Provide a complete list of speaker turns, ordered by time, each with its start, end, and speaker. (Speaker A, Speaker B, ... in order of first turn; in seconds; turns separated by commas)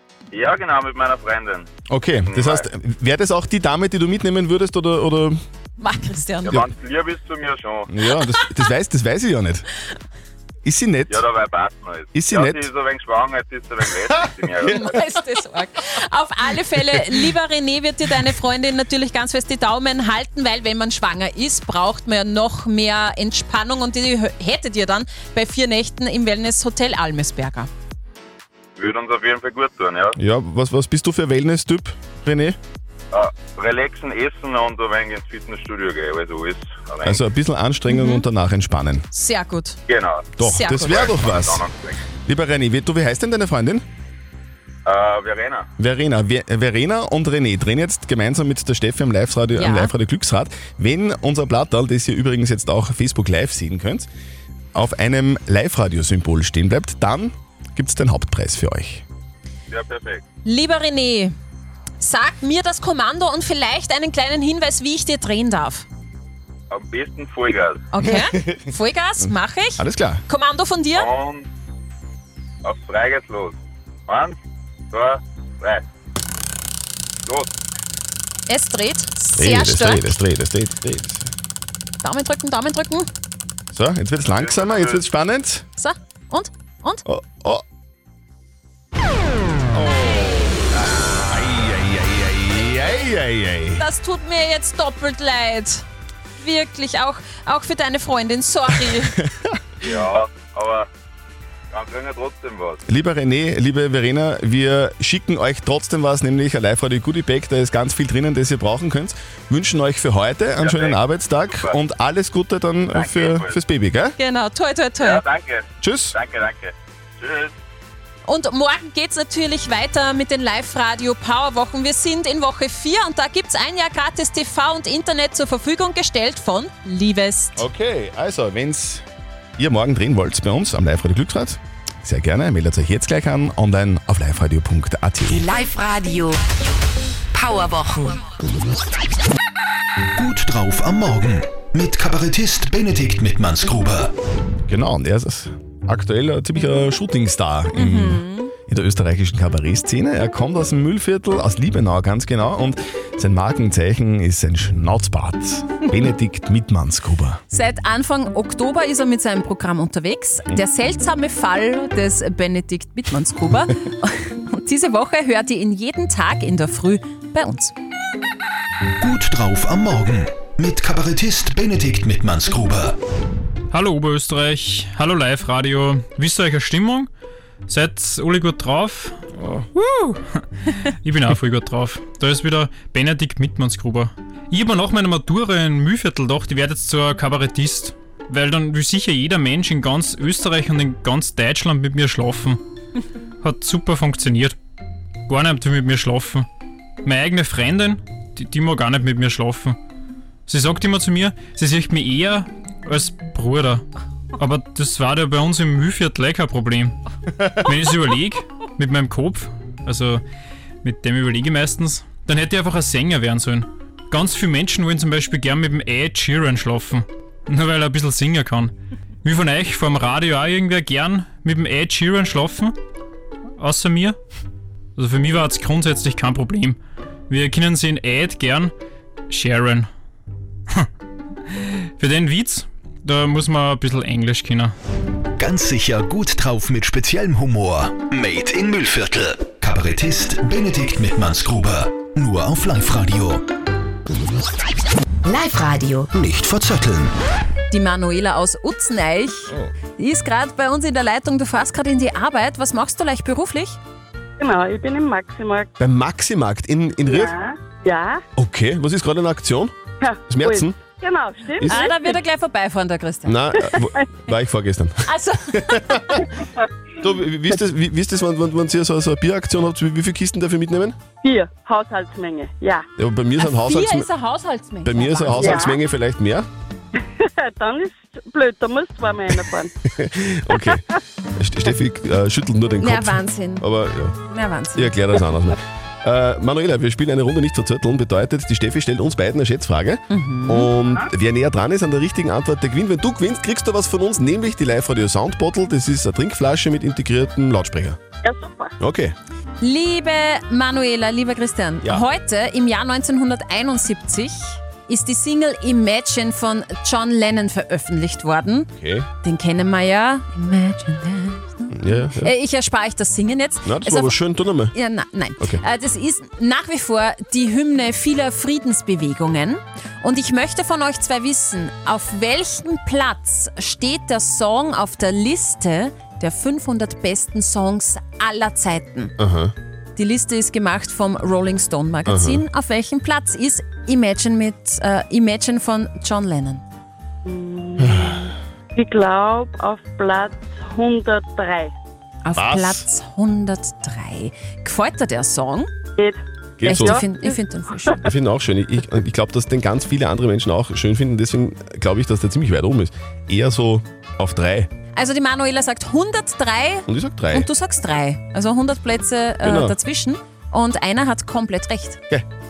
Speaker A: 0.3-1.7, Speaker B: 1.9-5.4, Speaker A: 2.2-2.7, Speaker C: 5.8-6.6, Speaker A: 6.4-7.9, Speaker B: 7.9-9.7, Speaker B: 10.6-11.3, Speaker A: 11.1-14.7, Speaker B: 12.2-12.7, Speaker C: 14.7-27.7, Speaker A: 28.8-30.2, Speaker B: 30.2-32.6, Speaker A: 33.1-37.2, Speaker B: 37.0-39.0, Speaker C: 37.9-38.2, Speaker C: 39.1-39.8, Speaker A: 39.9-40.3, Speaker B: 40.4-41.6, Speaker C: 40.4-41.1, Speaker A: 40.8-42.0, Speaker B: 42.2-43.8, Speaker A: 44.9-45.7, Speaker B: 45.8-54.1, Speaker C: 49.5-49.9, Speaker B: 54.8-59.0, Speaker A: 59.7-60.2, Speaker C: 60.5-61.3, Speaker C: 62.0-65.9, Speaker A: 66.7-67.8, Speaker C: 67.9-71.1, Speaker B: 68.0-68.3, Speaker B: 69.2-70.2, Speaker A: 71.0-71.5, Speaker A: 72.6-74.4, Speaker A: 74.9-75.8, Speaker C: 78.5-80.2, Speaker B: 79.4-81.3, Speaker C: 82.0-83.1, Speaker B: 83.7-85.7, Speaker A: 84.3-85.0, Speaker C: 85.8-87.0, Speaker B: 87.1-87.6, Speaker B: 89.7-93.8, Speaker C: 93.8-95.8, Speaker C: 96.4-99.2, Speaker B: 99.2-99.6, Speaker A: 99.8-100.9, Speaker A: 101.7-102.8, Speaker B: 102.9-114.2, Speaker A: 110.6-111.8, Speaker A: 112.9-113.6, Speaker C: 114.2-115.2, Speaker A: 115.0-117.5, Speaker B: 115.8-116.2, Speaker C: 118.2-127.6, Speaker B: 127.6-129.1, Speaker B: 129.6-135.5, Speaker D: 135.2-136.4, Speaker D: 137.3-138.2, Speaker E: 140.2-144.1, Speaker B: 144.7-157.4, Speaker C: 147.7-148.5, Speaker C: 157.5-167.7, Speaker E: 169.0-173.0, Speaker F: 173.7-177.1, Speaker F: 177.7-179.1, Speaker B: 179.4-179.7, Speaker F: 179.8-180.4, Speaker F: 181.0-192.6, Speaker F: 193.4-194.6, Speaker F: 195.3-196.5, Speaker F: 197.0-199.8, Speaker F: 200.5-203.8, Speaker F: 204.4-207.0, Speaker F: 207.6-210.2, Speaker F: 210.8-218.7, Speaker F: 219.2-222.7, Speaker F: 223.6-224.2, Speaker F: 225.0-226.8, Speaker F: 227.3-228.7, Speaker F: 229.3-229.9, Speaker F: 232.0-234.7, Speaker E: 235.4-243.4, Speaker D: 245.3-246.1, Speaker E: 246.1-247.1, Speaker C: 247.7-253.8, Speaker G: 254.4-255.7, Speaker B: 255.8-257.3, Speaker G: 257.1-258.2, Speaker B: 258.4-259.7, Speaker G: 260.0-262.2, Speaker B: 260.3-260.7, Speaker C: 261.6-263.4, Speaker B: 263.3-264.9, Speaker G: 263.6-264.1, Speaker C: 265.1-266.3, Speaker B: 265.6-266.3, Speaker B: 267.0-270.9, Speaker G: 271.2-272.9, Speaker B: 273.0-274.1, Speaker C: 273.4-275.6, Speaker B: 274.9-276.5, Speaker G: 275.4-275.8, Speaker G: 276.9-279.7, Speaker B: 280.0-280.8, Speaker B: 281.4-284.1, Speaker C: 282.8-283.6, Speaker C: 284.2-285.0, Speaker B: 284.8-298.0, Speaker C: 290.1-290.7, Speaker G: 298.2-298.7, Speaker B: 298.8-299.1, Speaker C: 299.6-308.7, Speaker B: 308.8-309.1, Speaker C: 309.2-329.1, Speaker B: 311.7-312.3, Speaker B: 313.6-314.7, Speaker B: 329.2-329.5, Speaker C: 330.0-336.6, Speaker B: 332.1-332.4, Speaker G: 337.2-341.7, Speaker C: 342.2-345.7, Speaker B: 342.4-342.9, Speaker B: 346.6-347.0, Speaker C: 346.6-348.0, Speaker G: 346.7-347.1, Speaker B: 348.0-354.7, Speaker C: 354.9-362.0, Speaker B: 356.9-357.5, Speaker B: 359.4-359.8